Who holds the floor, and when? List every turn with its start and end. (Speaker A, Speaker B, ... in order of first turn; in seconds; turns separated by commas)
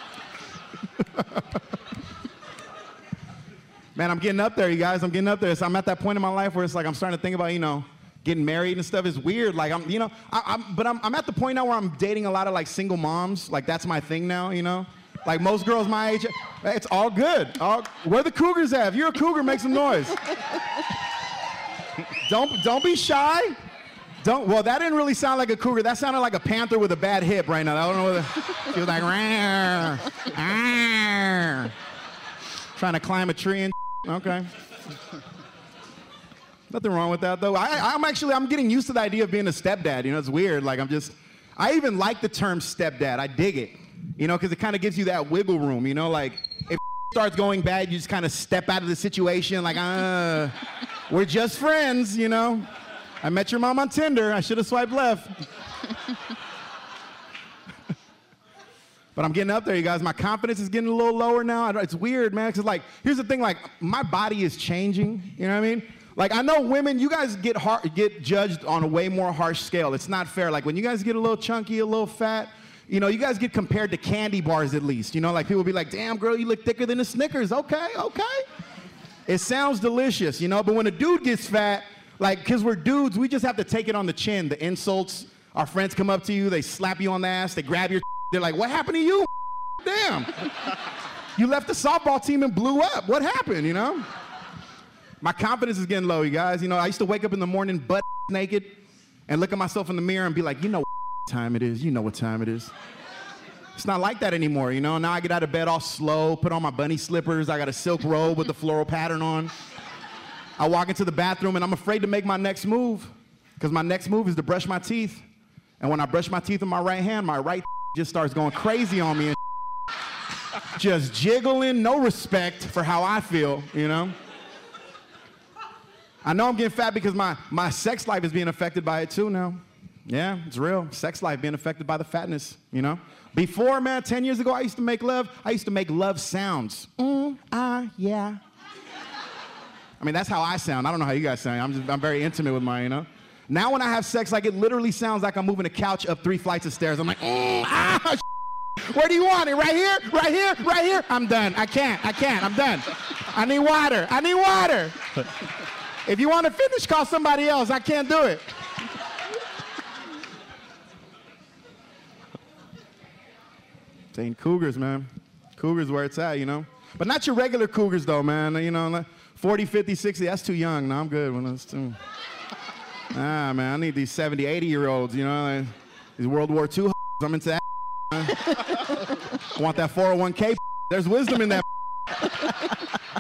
Speaker A: 1.0-1.4, Speaker A: 4.0-20.2, Speaker A: 22.2-23.6, Speaker A: 24.2-31.7, Speaker A: 32.8-34.5, Speaker A: 36.7-50.5, Speaker A: 51.1-52.7, Speaker A: 53.2-55.5, Speaker A: 59.2-78.5, Speaker A: 79.3-90.5, Speaker A: 91.4-94.1, Speaker A: 95.2-102.7, Speaker A: 103.8-109.5, Speaker A: 110.6-115.2, Speaker A: 115.8-119.4, Speaker A: 120.7-124.2, Speaker A: 126.2-138.4, Speaker A: 140.0-148.2, Speaker A: 148.8-155.0, Speaker A: 156.1-158.5, Speaker A: 164.1-172.0, Speaker A: 173.1-178.8, Speaker A: 179.4-181.7